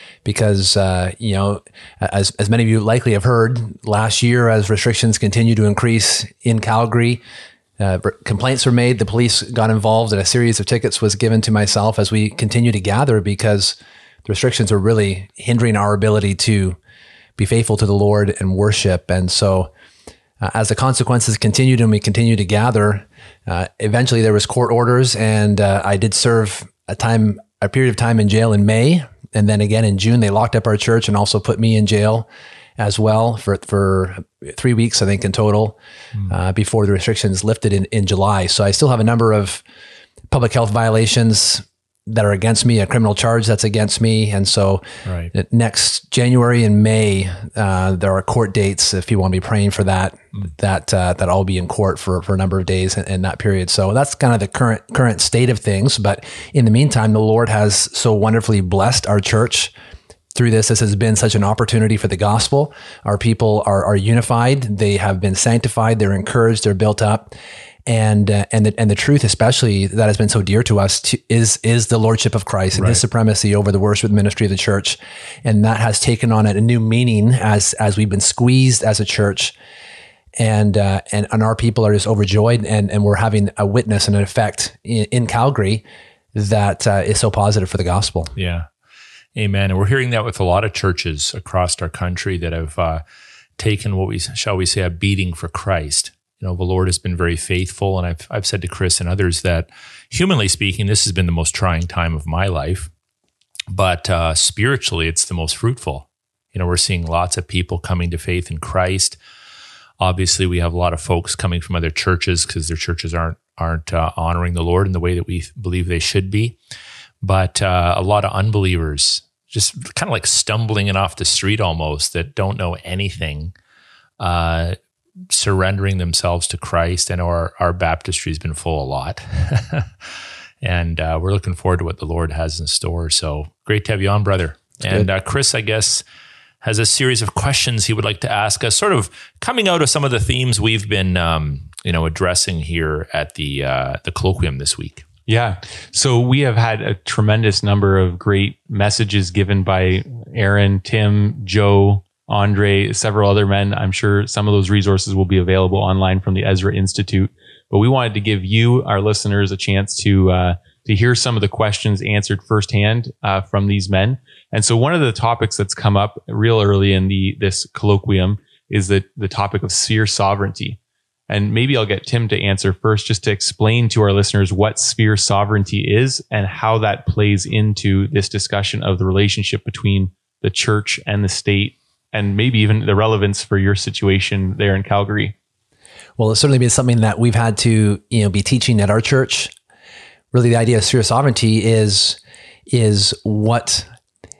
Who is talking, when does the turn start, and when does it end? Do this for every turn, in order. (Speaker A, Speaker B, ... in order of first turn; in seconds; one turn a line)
Speaker A: 0.2-7.2
Speaker A: 7.8-16.8
Speaker A: 17.4-19.7
Speaker A: 20.4-35.8
Speaker A: 36.3-39.6
Speaker A: 40.3-59.7
Speaker B: 45.1-45.3
Speaker A: 60.4-67.3
Speaker A: 67.9-79.5
Speaker B: 72.8-73.0
Speaker A: 80.4-88.3
Speaker B: 88.4-88.7
Speaker B: 89.3-93.0
Speaker B: 93.6-102.9
Speaker B: 103.7-109.2
Speaker B: 110.0-116.6
Speaker B: 117.2-123.5
Speaker B: 124.2-124.8
Speaker B: 125.3-129.9
Speaker B: 130.6-136.0
Speaker B: 136.6-145.1
Speaker C: 145.3-185.3
Speaker A: 186.2-189.5
Speaker A: 190.3-193.9